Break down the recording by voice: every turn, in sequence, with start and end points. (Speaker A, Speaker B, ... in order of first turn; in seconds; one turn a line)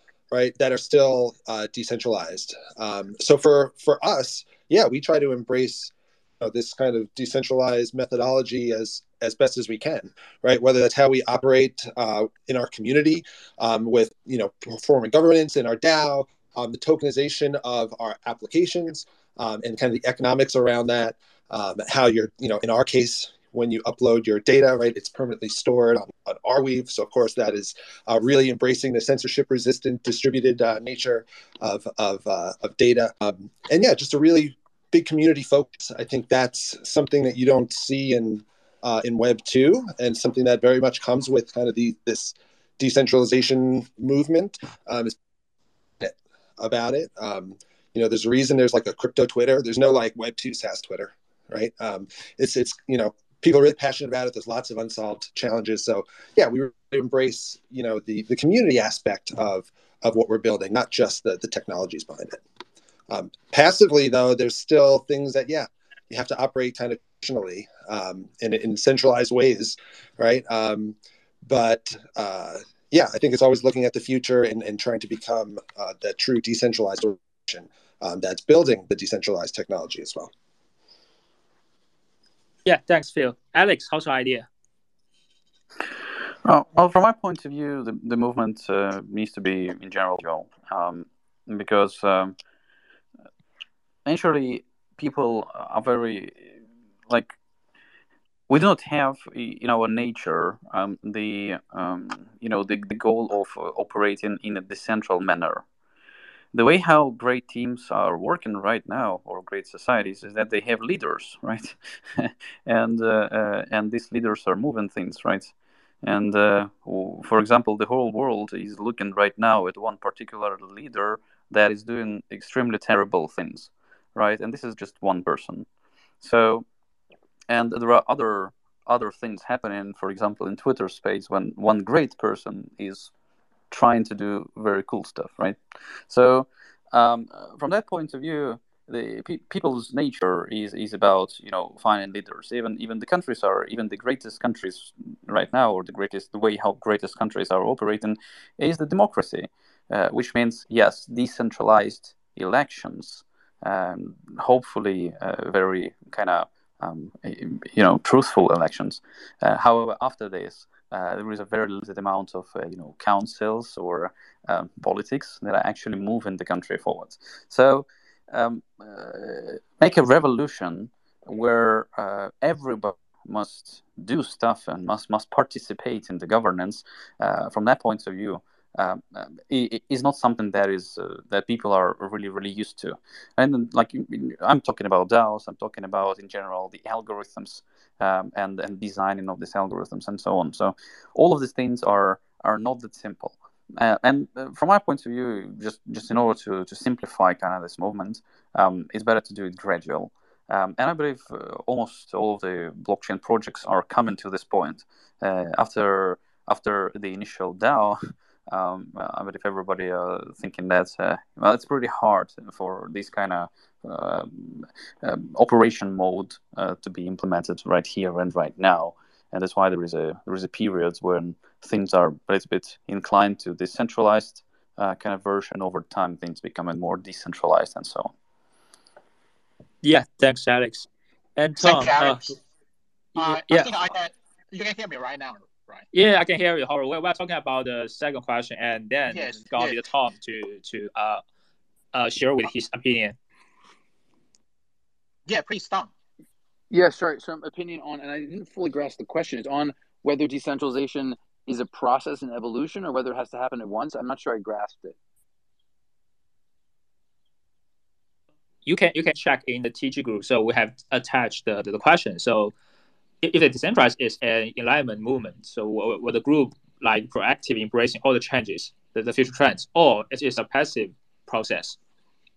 Speaker A: 0.3-45.2
Speaker A: 46.0-62.4
Speaker A: 63.1-80.3
Speaker B: 82.7-84.5
Speaker C: 86.4-92.4
Speaker C: 94.1-96.6
Speaker C: 97.1-97.4
Speaker C: 98.5-105.7
Speaker C: 106.5-115.5
Speaker C: 116.0-125.7
Speaker C: 126.2-126.7
Speaker C: 127.5-133.1
Speaker C: 133.7-228.1
Speaker B: 229.8-232.2
Speaker D: 231.6-232.4
Speaker B: 233.2-233.7
Speaker D: 233.2-235.8
Speaker B: 235.9-241.2
Speaker D: 239.1-239.8
Speaker B: 241.9-243.2
Speaker D: 245.3-245.9
Speaker E: 246.7-255.0
Speaker B: 258.7-262.5
Speaker B: 263.2-271.8